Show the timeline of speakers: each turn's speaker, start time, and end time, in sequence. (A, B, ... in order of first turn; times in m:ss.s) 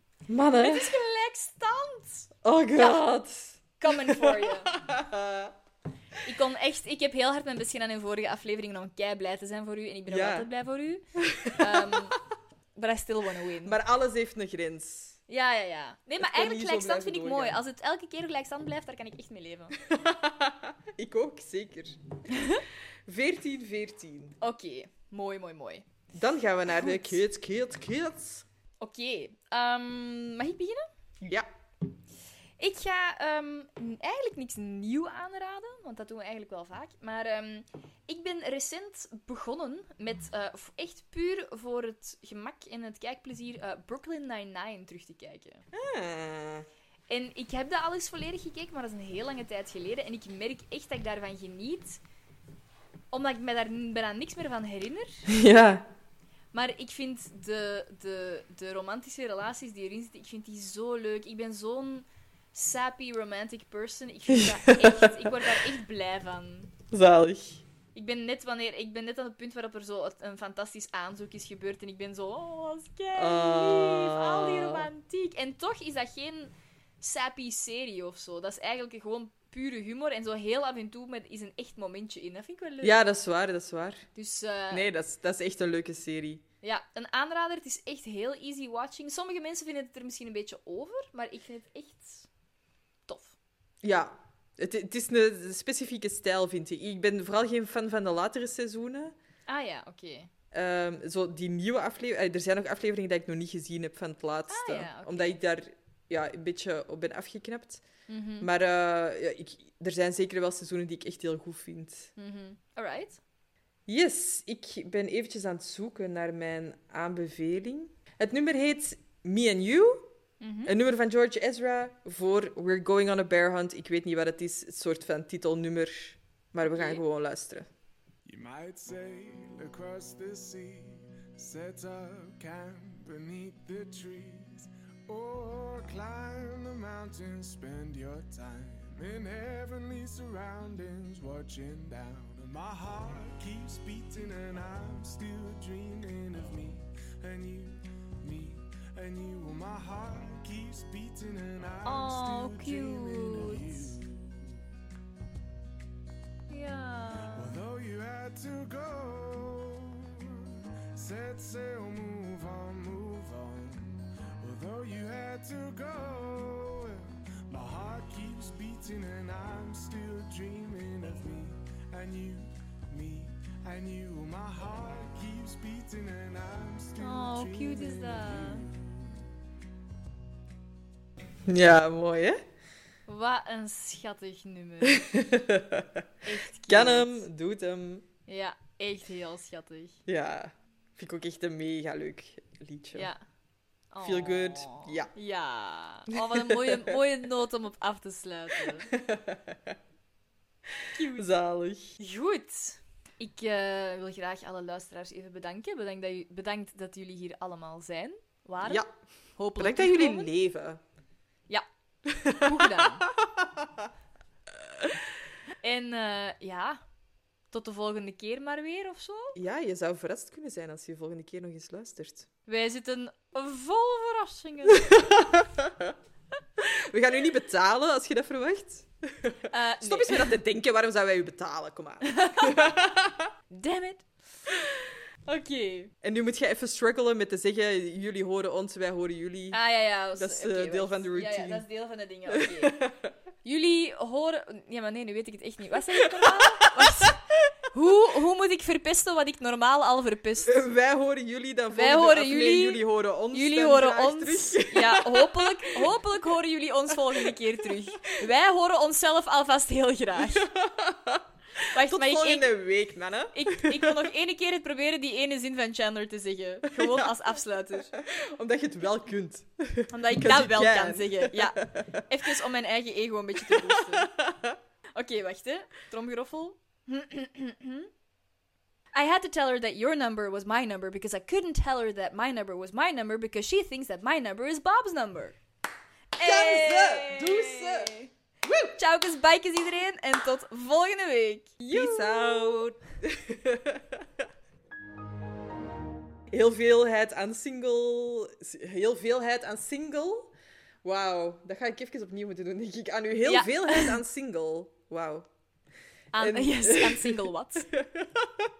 0:00.3-0:00.9 A
0:00.6-0:03.0 B
0:02.4-0:05.5 A
0:03.8-0:04.7 B
0:06.2-0:12.2 B
0:10.1-0:10.4 A
0:11.2-0:12.1 A
0:12.7-0:13.8 B
0:13.6-0:15.2 A
0:15.3-0:19.7 B
0:16.2-0:17.6 A
0:19.9-0:22.0 A
0:22.3-0:22.6 B
0:23.1-0:24.4 A
0:24.4-0:25.8 B
0:26.1-0:28.4 A
0:26.7-0:27.2 B
0:28.8-0:30.8 B
0:31.2-0:31.5 A
0:32.6-0:45.6 B
0:45.7-0:46.7 A
0:47.1-0:52.0 B
0:53.1-0:55.2 B
0:55.3-0:55.9 A
0:56.5-1:06.7 B
1:04.3-1:05.3 A
1:06.9-1:07.6 A
1:07.9-1:23.0 B
1:13.2-1:14.9 A
1:22.8-1:24.0 A
1:24.1-1:24.9 B
1:24.7-1:26.4 A
1:26.6-1:32.3 B
1:33.1-1:33.3 B
1:33.8-1:39.1 A
1:39.5-1:40.3 B
1:40.5-1:47.8 A
1:44.5-1:45.4 B
1:48.1-1:48.5 B
1:48.4-1:52.1 A
1:52.2-1:53.2 B
1:53.9-2:00.1 A
2:00.4-2:00.7 B
2:00.6-2:07.7 A
2:06.6-2:07.0 B
2:08.2-2:34.5 C
2:31.8-2:34.0 B
2:36.5-2:37.6 B
2:37.3-2:59.2 C
2:57.0-2:58.6 B
3:01.5-3:02.4 A
3:03.1-3:05.1 B
3:04.8-3:06.0 A
3:06.2-3:07.3 B
3:06.7-3:08.0 A
3:08.3-3:10.0 B
3:10.1-3:13.1 A
3:12.9-3:13.2 B
3:13.9-3:18.9 B
3:14.0-3:15.1 A
3:16.3-3:16.9 A
3:18.9-3:19.8 A
3:20.8-3:22.0 A
3:21.0-3:21.3 B
3:22.0-3:28.8 B
3:28.6-3:28.9 A
3:29.4-3:30.3 B
3:29.6-3:30.8 A
3:32.1-3:33.9 A
3:32.3-3:33.0 B
3:35.6-3:36.8 B
3:37.5-3:39.4 B
3:39.3-3:42.3 A
3:42.5-3:45.0 B
3:44.9-3:45.9 A
3:46.6-3:53.3 A
3:49.5-3:50.4 B
3:52.0-3:52.7 B
3:53.5-3:54.0 B
3:55.2-3:55.9 B
3:56.0-3:59.6 A
3:59.5-4:02.8 B
4:00.2-4:01.6 A
4:02.3-4:03.1 A
4:03.4-4:07.2 B
4:06.0-4:07.1 A
4:07.7-4:10.7 B
4:10.4-4:15.7 A
4:11.7-4:20.5 B
4:20.2-4:23.9 A
4:21.7-4:22.5 B
4:23.3-4:27.9 B
4:26.7-4:27.1 A
4:28.0-4:32.0 A
4:29.9-4:34.1 B
4:33.5-4:34.6 A
4:34.9-4:37.9 B
4:38.9-4:45.4 B
4:46.2-4:48.1 B
4:46.2-4:48.8 A
4:48.8-4:52.8 B
4:51.7-4:54.0 A
4:56.3-5:00.3 A
5:00.8-5:05.2 A
5:03.2-5:04.0 B
5:06.1-5:07.7 B
5:06.2-5:07.2 A
5:07.7-5:08.3 A